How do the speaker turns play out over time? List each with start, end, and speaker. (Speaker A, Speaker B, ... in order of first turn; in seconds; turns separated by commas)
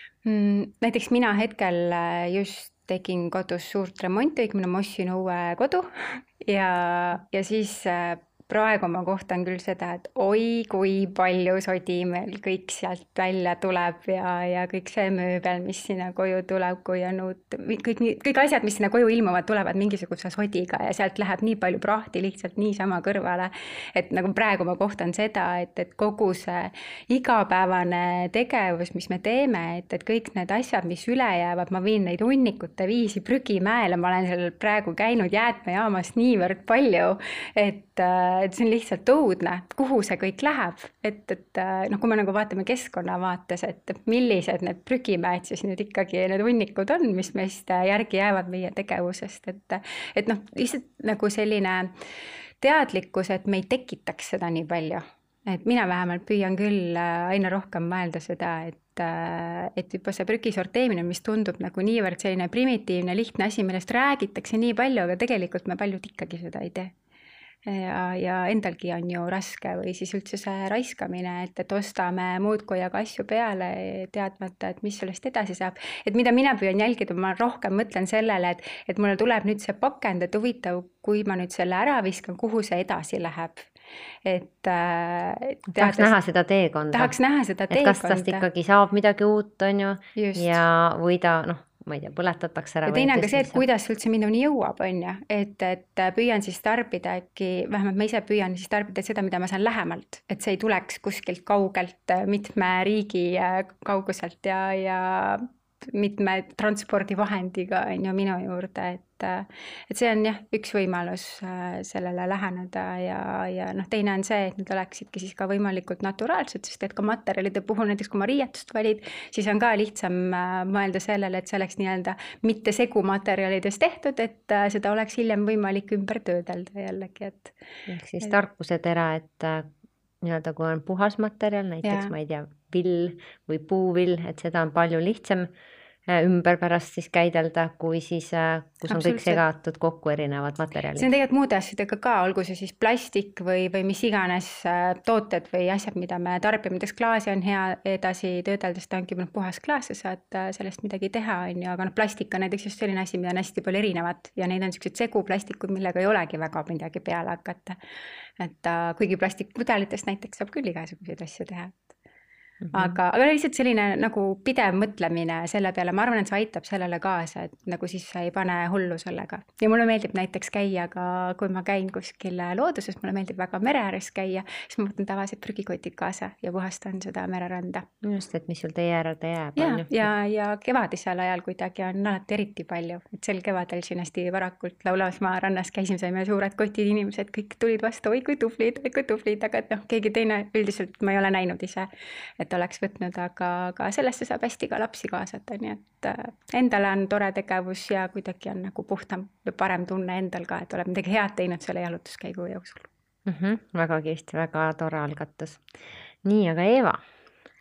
Speaker A: 0.2-51.9, Speaker A: 52.6-66.9, Speaker A: 67.7-83.7, Speaker A: 84.2-86.1, Speaker B: 85.8-87.1, Speaker A: 86.9-88.5, Speaker B: 87.7-93.6, Speaker A: 90.2-90.6, Speaker A: 92.9-127.5, Speaker B: 127.9-129.7, Speaker B: 130.2-135.5, Speaker A: 131.8-132.1, Speaker B: 136.1-141.1, Speaker A: 138.9-139.4, Speaker A: 141.0-157.8, Speaker A: 158.4-161.9, Speaker B: 162.7-163.0, Speaker A: 162.7-177.9, Speaker B: 178.0-180.1, Speaker A: 179.6-202.9, Speaker B: 203.3-205.6, Speaker B: 206.2-207.0